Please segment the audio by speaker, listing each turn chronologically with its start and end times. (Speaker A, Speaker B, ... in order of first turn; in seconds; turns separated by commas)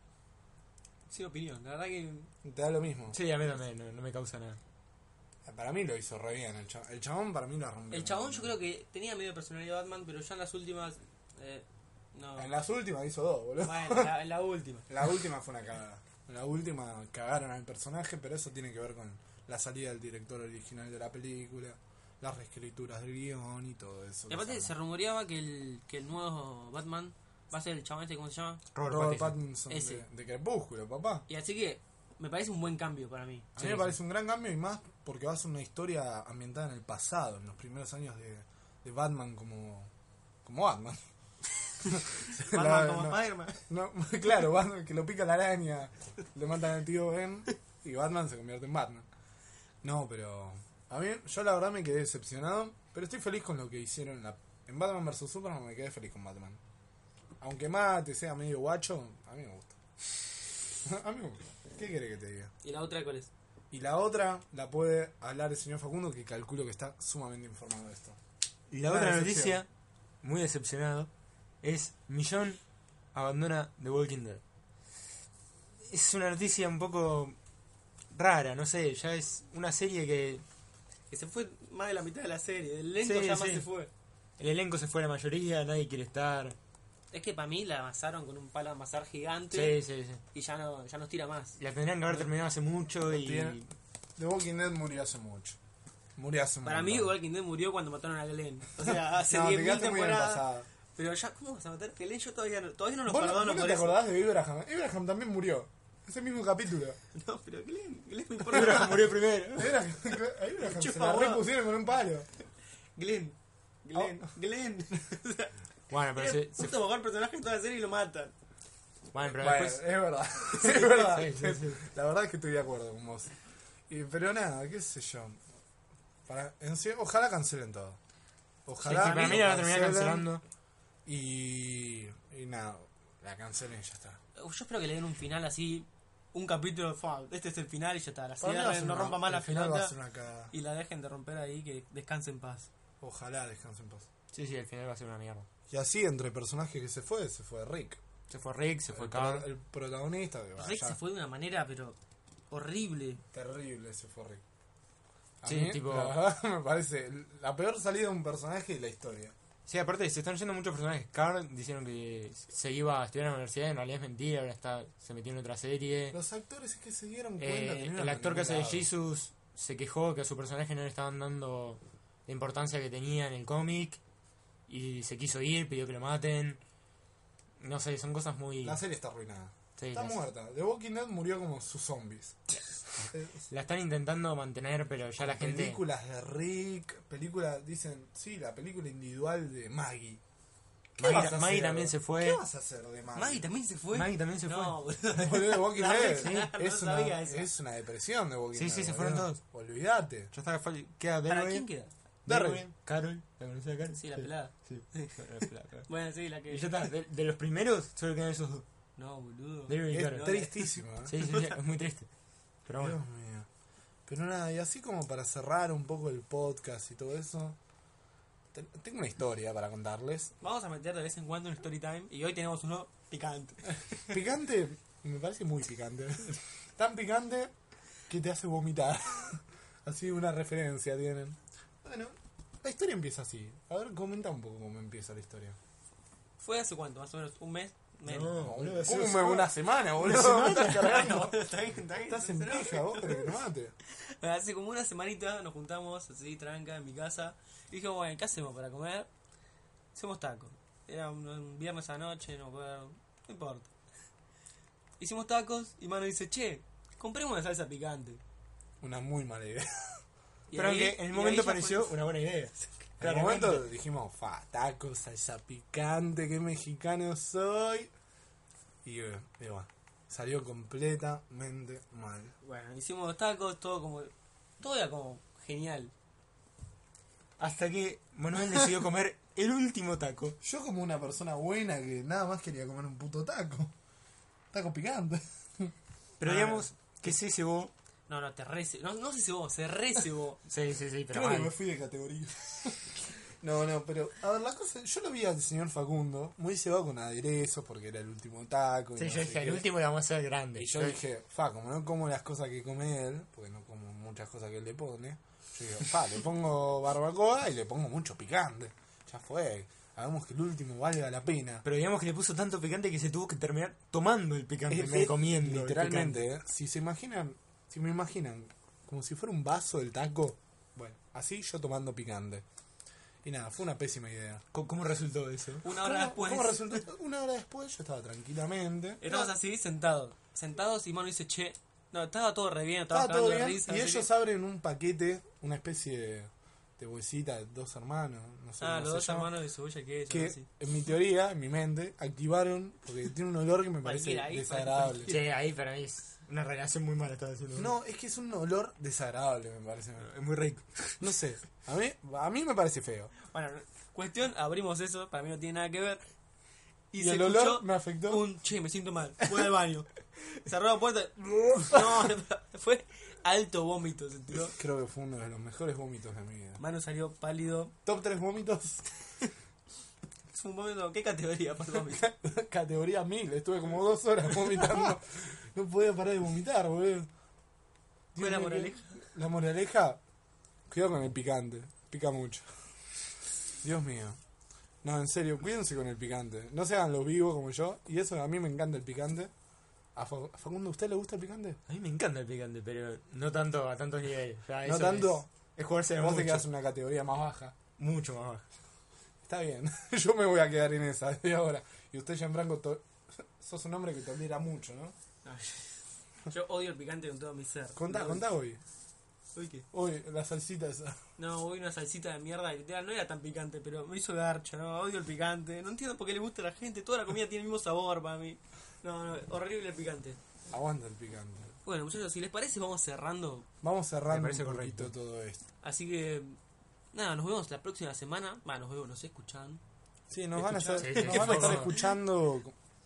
Speaker A: 1.1-2.3, Speaker B: 2.4-3.2, Speaker C: 3.1-4.6, Speaker B: 5.5-8.5, Speaker A: 7.9-12.5, Speaker B: 12.4-14.1, Speaker A: 13.6-15.0, Speaker B: 14.9-24.7, Speaker A: 24.3-28.6, Speaker C: 28.7-29.4, Speaker B: 28.8-31.3, Speaker A: 29.7-30.1, Speaker A: 31.3-33.5, Speaker C: 33.6-34.0, Speaker B: 33.6-39.9, Speaker B: 40.4-41.0, Speaker B: 41.8-49.1, Speaker A: 42.4-43.7, Speaker B: 49.8-56.6, Speaker B: 57.4-59.8, Speaker B: 60.8-62.5, Speaker A: 62.6-63.3, Speaker B: 63.7-68.2, Speaker C: 68.7-69.7, Speaker B: 68.8-69.6, Speaker C: 70.2-71.1, Speaker C: 71.6-72.6, Speaker C: 73.1-74.4, Speaker C: 75.8-77.4, Speaker C: 78.1-80.4, Speaker A: 81.1-83.9, Speaker C: 83.0-83.7, Speaker C: 84.4-86.6, Speaker A: 87.1-89.8, Speaker C: 89.5-90.2, Speaker A: 90.3-91.6, Speaker C: 91.6-93.7, Speaker B: 93.0-93.6, Speaker B: 94.2-95.6, Speaker B: 96.2-97.1, Speaker A: 96.6-104.0, Speaker B: 98.8-100.7, Speaker B: 103.1-107.0, Speaker A: 107.1-109.2, Speaker C: 108.5-109.8, Speaker B: 108.6-112.3, Speaker A: 110.6-111.5, Speaker A: 113.0-118.3, Speaker B: 114.0-114.3, Speaker C: 115.9-116.7, Speaker C: 119.1-119.8, Speaker B: 119.2-123.3, Speaker C: 120.6-121.8, Speaker B: 123.9-125.4, Speaker B: 126.3-128.0, Speaker B: 128.7-130.3, Speaker A: 128.8-129.4, Speaker C: 128.8-130.4, Speaker B: 131.1-134.2, Speaker A: 134.4-139.9, Speaker B: 138.4-140.5, Speaker A: 140.5-142.7, Speaker B: 143.0-144.1, Speaker C: 144.3-145.5, Speaker B: 145.7-148.0, Speaker C: 148.3-149.5, Speaker B: 148.9-151.0, Speaker A: 150.6-152.0, Speaker A: 152.5-153.2, Speaker B: 153.3-154.4, Speaker B: 155.4-159.3, Speaker C: 155.4-156.2, Speaker C: 159.7-166.2, Speaker B: 166.1-168.9, Speaker C: 167.4-174.0, Speaker C: 174.7-176.6, Speaker C: 177.6-178.8, Speaker B: 178.6-183.4, Speaker C: 179.8-180.2, Speaker C: 183.0-185.8, Speaker B: 185.2-190.2, Speaker C: 191.0-192.4, Speaker B: 191.0-193.4, Speaker A: 191.1-191.3, Speaker A: 193.2-197.5, Speaker C: 193.9-194.8, Speaker B: 195.1-200.3, Speaker C: 196.2-196.5, Speaker C: 198.5-199.4, Speaker C: 200.3-201.7, Speaker A: 201.3-201.9, Speaker C: 202.3-205.9, Speaker B: 202.3-202.7, Speaker A: 203.9-205.2, Speaker A: 205.9-206.7, Speaker C: 206.5-208.7, Speaker A: 209.0-210.6, Speaker C: 209.7-210.4, Speaker B: 209.9-211.2, Speaker C: 211.1-212.1, Speaker C: 212.7-213.0, Speaker B: 212.8-213.5, Speaker B: 214.1-217.6, Speaker B: 218.5-220.3, Speaker A: 220.4-224.2, Speaker B: 224.1-227.5, Speaker B: 228.1-235.6, Speaker A: 236.4-239.0, Speaker C: 238.1-239.5, Speaker B: 238.4-241.4, Speaker C: 240.0-241.2, Speaker A: 240.0-243.4, Speaker B: 242.1-243.8, Speaker A: 243.9-249.1, Speaker A: 249.9-253.7, Speaker A: 255.0-258.2, Speaker B: 258.8-260.0, Speaker A: 260.5-262.0, Speaker C: 260.5-263.7, Speaker B: 263.0-267.9, Speaker B: 268.8-272.4, Speaker A: 272.4-275.9, Speaker C: 277.4-280.4, Speaker B: 280.4-283.7, Speaker B: 284.5-286.7, Speaker C: 286.2-287.7, Speaker A: 288.1-290.4, Speaker C: 290.5-291.5, Speaker B: 291.1-299.7, Speaker C: 299.0-301.0, Speaker B: 300.6-311.6, Speaker C: 311.6-316.2, Speaker B: 314.7-322.4, Speaker B: 323.2-324.4, Speaker C: 324.5-325.6, Speaker A: 325.6-326.8, Speaker B: 325.7-329.3, Speaker A: 329.0-334.1, Speaker B: 332.9-339.3, Speaker A: 338.6-340.5, Speaker B: 340.1-345.2, Speaker A: 343.8-345.3, Speaker C: 345.1-347.8, Speaker B: 347.6-350.1, Speaker C: 350.0-351.0, Speaker B: 351.0-353.1, Speaker A: 353.3-356.0, Speaker A: 356.9-364.6, Speaker B: 357.0-358.2, Speaker B: 361.4-362.1, Speaker B: 364.5-366.6, Speaker A: 366.6-367.7, Speaker B: 367.9-368.9, Speaker A: 370.3-372.1, Speaker B: 371.8-377.1, Speaker B: 378.1-380.0, Speaker A: 378.2-379.0, Speaker B: 380.7-382.7, Speaker B: 383.6-384.2, Speaker B: 384.8-389.3, Speaker B: 389.9-391.6, Speaker C: 391.7-396.5, Speaker B: 394.6-395.3, Speaker B: 396.0-397.6, Speaker C: 397.8-398.4, Speaker B: 399.2-404.9, Speaker A: 405.2-408.2, Speaker B: 407.8-408.6, Speaker A: 409.3-409.7, Speaker B: 409.7-411.0, Speaker A: 411.2-420.2, Speaker B: 420.5-421.5, Speaker A: 421.6-423.5, Speaker B: 423.6-425.4, Speaker C: 424.1-424.9, Speaker A: 425.6-426.4, Speaker A: 426.9-429.6, Speaker B: 430.1-432.6, Speaker A: 430.4-431.8, Speaker C: 430.7-431.8